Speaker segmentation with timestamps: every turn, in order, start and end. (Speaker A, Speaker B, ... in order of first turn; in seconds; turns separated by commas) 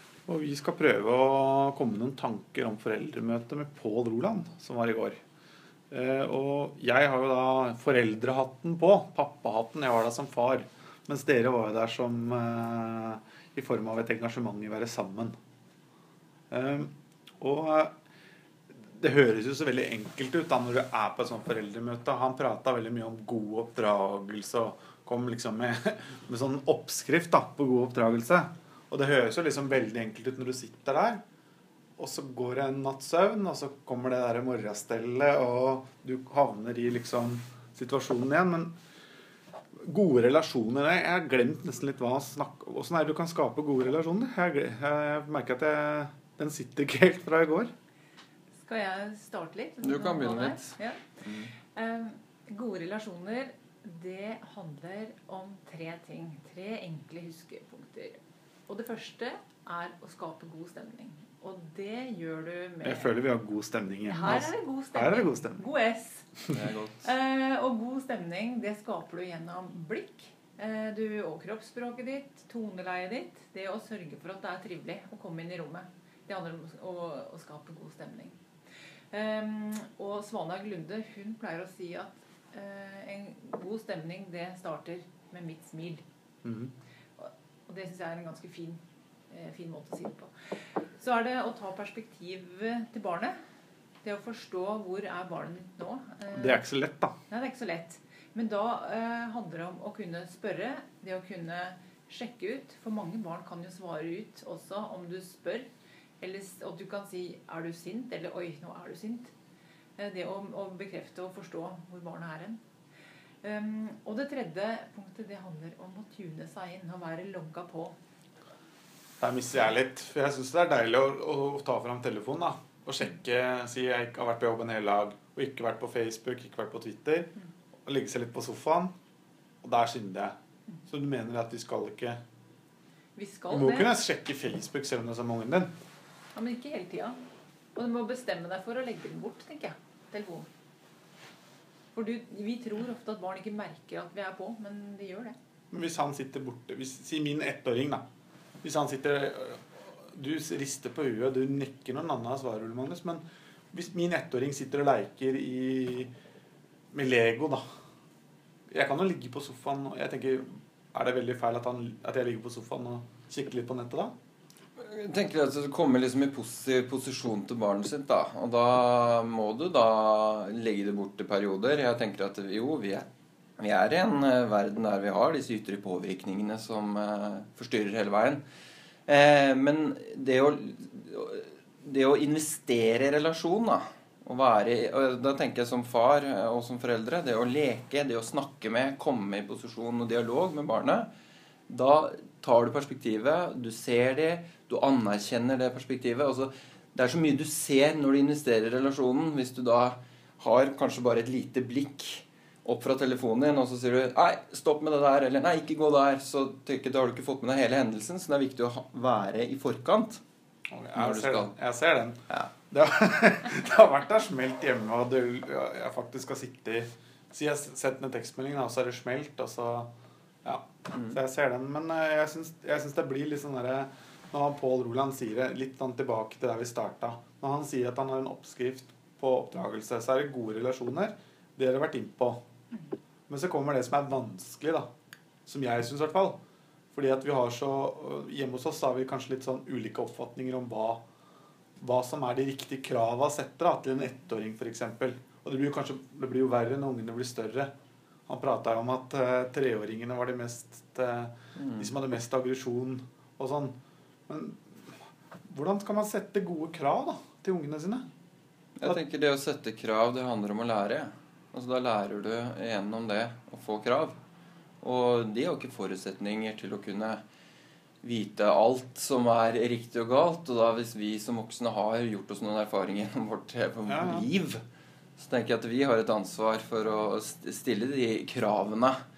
Speaker A: 0.3-5.2, Speaker A: 5.9-15.3, Speaker A: 16.5-17.9, Speaker A: 19.0-31.2, Speaker A: 32.0-38.7, Speaker A: 39.8-47.7, Speaker B: 48.6-63.1, Speaker C: 49.8-51.5, Speaker A: 62.8-65.6, Speaker B: 64.1-78.4, Speaker C: 66.5-67.1, Speaker B: 79.1-86.0, Speaker A: 86.4-86.7, Speaker B: 87.2-93.4, Speaker B: 94.0-96.6, Speaker A: 96.3-97.1, Speaker B: 97.3-105.7, Speaker B: 106.2-109.3, Speaker B: 110.0-112.6, Speaker B: 113.4-118.0, Speaker A: 119.2-127.3, Speaker A: 127.8-128.9, Speaker A: 129.6-130.3, Speaker A: 130.9-132.2, Speaker B: 133.2-133.9, Speaker A: 133.5-135.7, Speaker B: 136.3-137.2, Speaker B: 137.7-140.5, Speaker B: 141.9-145.3, Speaker A: 145.7-148.0, Speaker A: 148.6-156.1, Speaker A: 156.9-157.6, Speaker A: 158.7-164.1, Speaker C: 164.8-178.4, Speaker C: 179.1-191.1, Speaker C: 191.7-210.2, Speaker A: 210.7-219.9, Speaker C: 210.9-211.5, Speaker A: 220.4-232.4, Speaker A: 233.3-234.9, Speaker A: 235.4-236.4, Speaker A: 236.9-241.0, Speaker A: 241.8-247.7, Speaker A: 248.3-253.8, Speaker C: 251.6-251.9, Speaker A: 254.3-254.9, Speaker A: 255.5-258.1, Speaker C: 258.8-264.2, Speaker C: 264.8-267.2, Speaker C: 268.0-274.6, Speaker A: 273.9-274.2, Speaker C: 275.2-279.0